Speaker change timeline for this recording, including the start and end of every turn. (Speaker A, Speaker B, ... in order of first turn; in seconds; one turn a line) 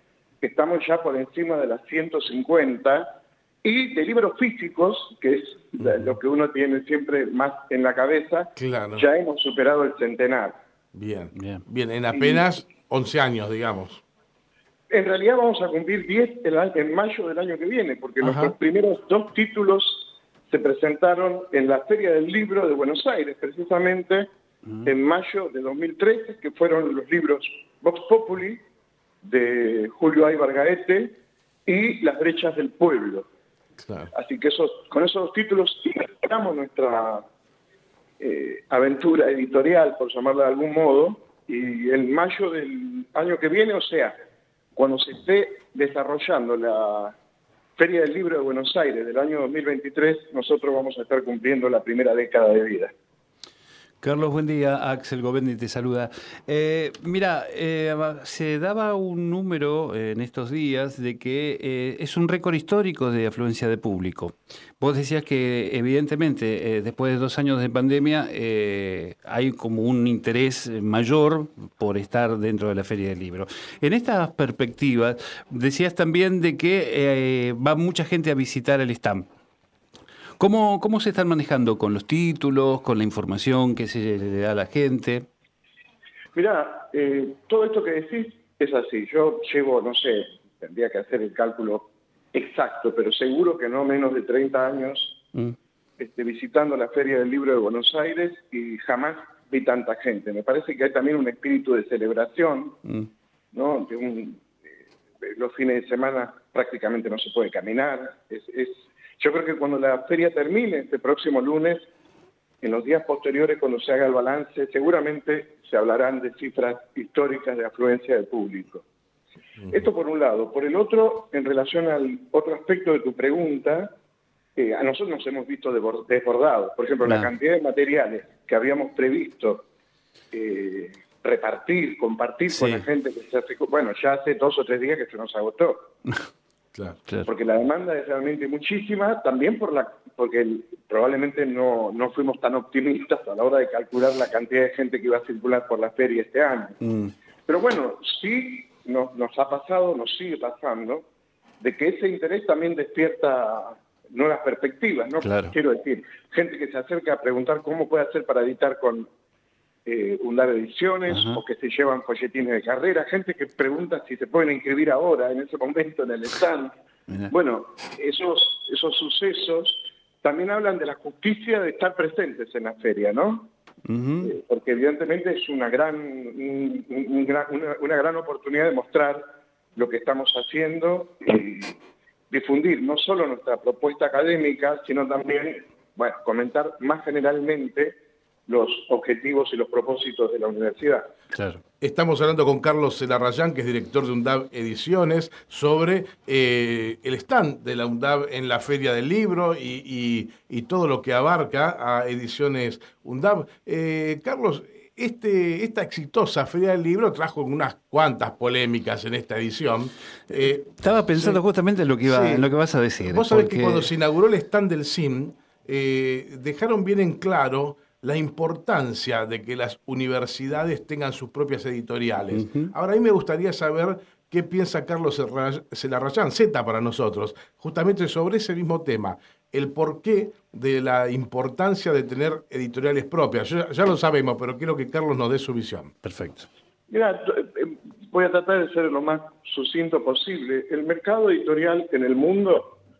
Speaker A: 0.4-10.6
Speaker B: 8.6-9.1
Speaker B: 10.9-14.0
Speaker C: 11.3-11.6
Speaker A: 12.1-12.4
Speaker A: 14.9-24.3
Speaker B: 18.2-18.5
Speaker A: 24.8-28.6
Speaker A: 29.2-33.3
Speaker B: 33.8-34.1
Speaker A: 34.1-37.2
Speaker A: 38.2-44.1
Speaker A: 44.7-47.1
Speaker A: 47.8-52.9
Speaker C: 54.0-79.3
Speaker C: 80.4-85.2
Speaker A: 86.3-95.2
Speaker A: 96.0-102.8
Speaker A: 103.5-104.5
Speaker A: 105.2-111.8
Speaker A: 112.6-118.8
Speaker A: 119.7-123.9
Speaker A: 124.5-129.7
Speaker C: 127.0-127.3
Speaker A: 130.3-135.9
Speaker C: 132.5-132.8
Speaker A: 137.2-146.8
Speaker C: 146.8-147.1
Speaker A: 147.4-151.0
Speaker A: 151.6-159.1
Speaker C: 155.2-155.5
Speaker A: 159.8-166.7
Speaker C: 161.1-161.4
Speaker A: 167.3-173.5
Speaker C: 173.9-174.3
Speaker A: 174.2-179.2
Speaker A: 179.8-181.7
Speaker A: 182.3-191.1
Speaker C: 191.3-191.6
Speaker B: 191.8-211.4
Speaker C: 210.8-213.9
Speaker B: 212.0-212.4
Speaker B: 213.0-235.9
Speaker C: 222.3-222.7
Speaker C: 236.0-236.5
Speaker A: 236.9-242.8